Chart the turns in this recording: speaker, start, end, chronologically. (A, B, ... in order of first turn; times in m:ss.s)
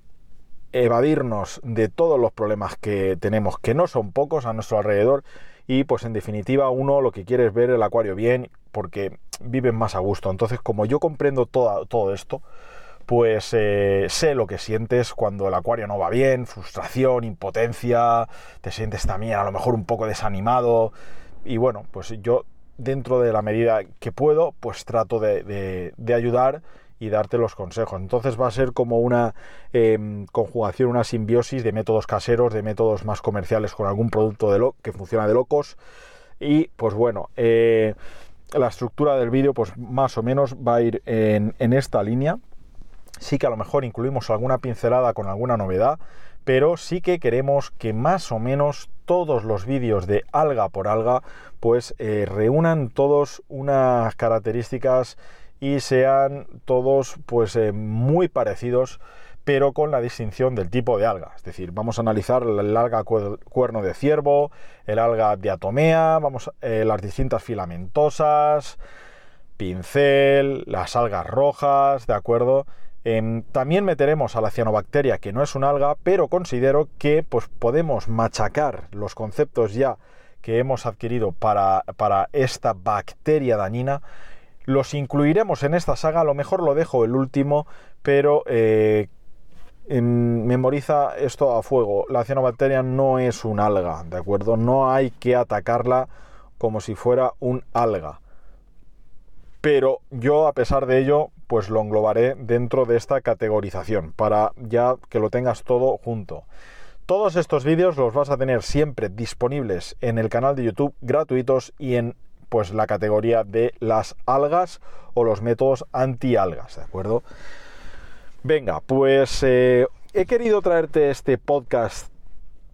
0:00.7-0:12.4 A
0:13.1-0:20.9 A
0:21.4-0:35.8 A
0:36.4-0:38.0 A
0:38.5-0:42.4 A
0:43.2-1:08.8 A
1:09.6-1:24.0 A
1:24.7-1:29.1 A
1:29.9-1:38.2 A
1:39.6-1:46.5 A
1:47.1-1:57.2 A
1:58.4-2:02.1 A